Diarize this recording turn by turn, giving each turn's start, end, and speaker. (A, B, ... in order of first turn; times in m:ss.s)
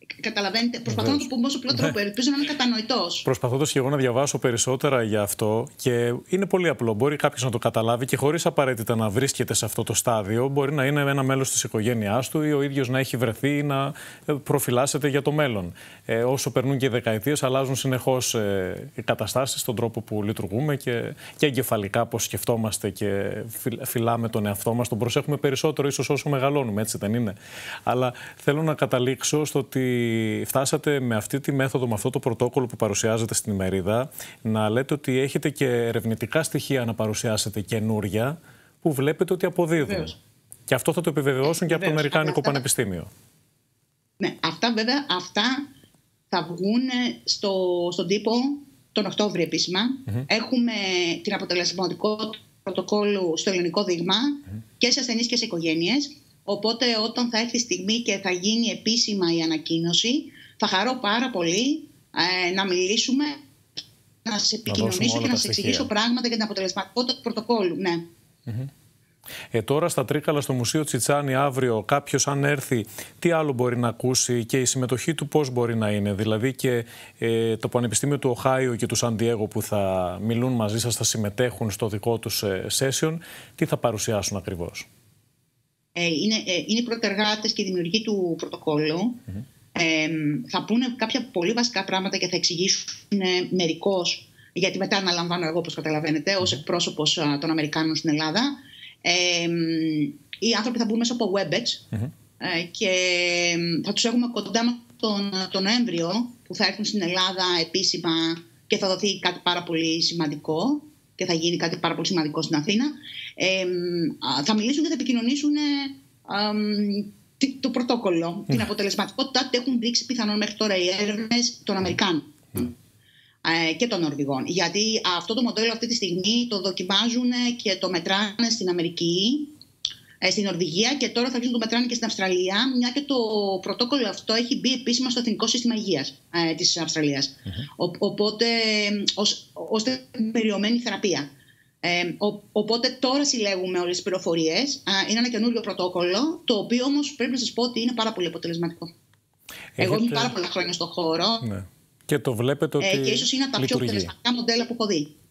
0:00.2-0:03.2 A
0:00.9-0:01.2 B
0:03.2-0:40.1 B
0:39.8-0:40.1 A
0:40.7-0:43.1 B
0:41.6-0:42.6 A
0:44.2-0:45.6 A
0:46.3-1:03.4 A
1:04.2-1:08.0 A
1:04.7-1:05.9 B
1:09.5-1:24.9 B
1:26.0-1:29.2 A
1:29.7-1:41.9 A
1:42.4-2:02.7 A
2:03.4-2:09.5 A
2:10.2-2:21.3 A
2:21.8-2:28.9 A
2:29.8-2:30.3 B
2:29.8-2:31.4 A
2:31.4-2:34.1 B
2:32.8-2:35.1 A